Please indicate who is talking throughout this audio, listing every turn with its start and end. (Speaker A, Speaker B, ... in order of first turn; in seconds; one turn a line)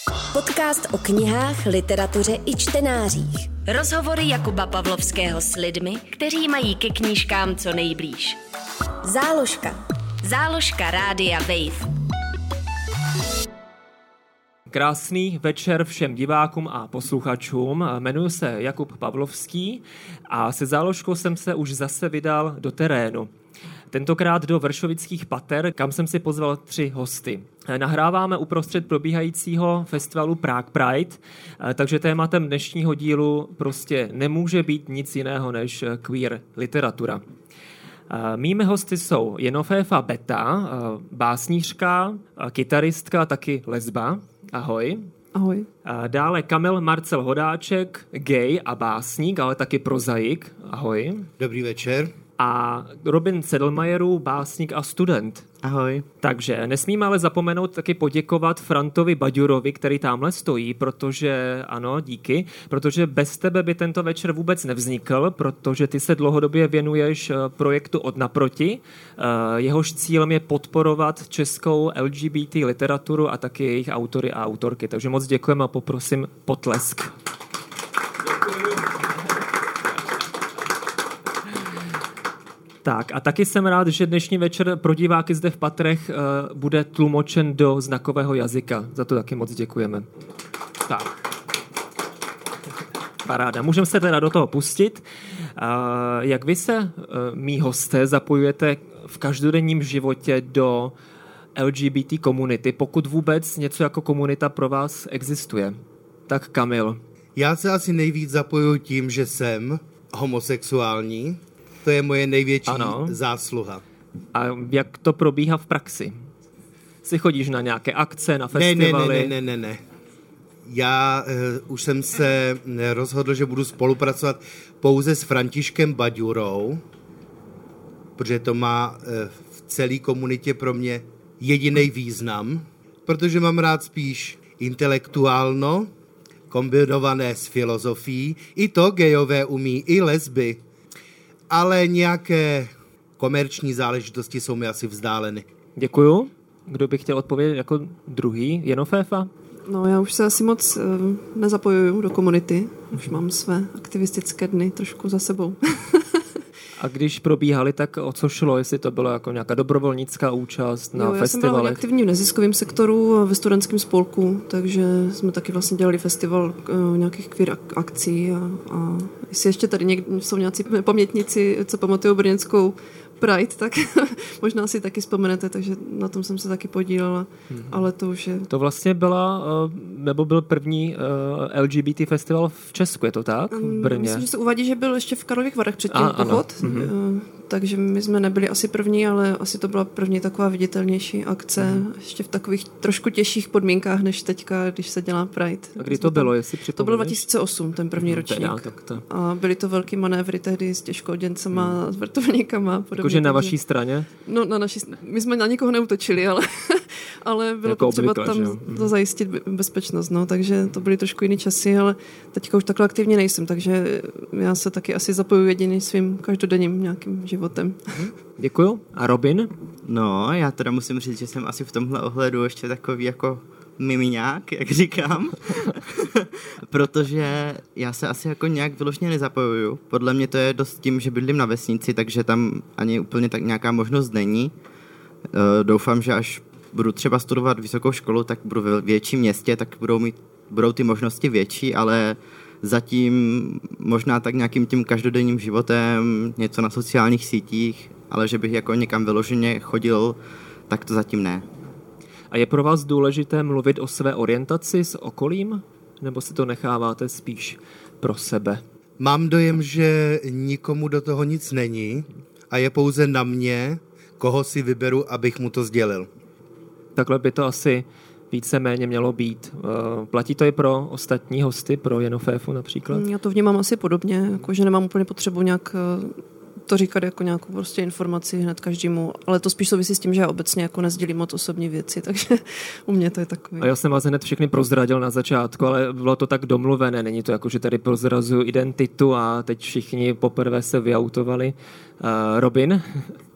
Speaker A: 0.3-8.4
Speaker A: 9.0-11.9
Speaker B: 14.7-23.3
Speaker B: 23.9-37.2
Speaker B: 38.1-45.1
Speaker C: 45.3-45.7
Speaker B: 45.8-51.3
Speaker D: 51.4-52.1
Speaker B: 52.4-55.4
Speaker E: 55.6-56.0
Speaker B: 56.2-77.1
Speaker B: 82.8-90.1
Speaker B: 90.9-91.1
Speaker B: 93.2-95.0
Speaker B: 95.5-100.9
Speaker B: 101.5-107.0
Speaker D: 107.3-113.8
Speaker B: 112.7-113.2
Speaker B: 114.3-116.2
Speaker B: 117.0-119.3
Speaker D: 118.5-119.8
Speaker D: 120.6-126.8
Speaker D: 128.2-135.9
Speaker D: 136.5-140.6
Speaker D: 141.5-145.4
Speaker B: 145.8-149.3
Speaker C: 149.7-156.2
Speaker B: 156.8-161.8
Speaker C: 160.9-178.5
Speaker B: 177.5-177.8
Speaker B: 178.5-184.2
Speaker C: 183.5-203.5
Speaker B: 185.9-186.9
Speaker B: 195.8-197.2
Speaker B: 198.0-199.0
Speaker B: 203.0-204.1
Speaker C: 204.2-217.9
Speaker B: 207.6-208.9
Speaker B: 217.9-219.5
Speaker E: 219.8-234.5
Speaker E: 235.3-250.2
Speaker E: 250.7-251.4
Speaker B: 252.3-258.6
Speaker D: 259.0-266.1
Speaker B: 266.9-273.0
Speaker C: 272.9-283.7
Speaker B: 283.6-293.1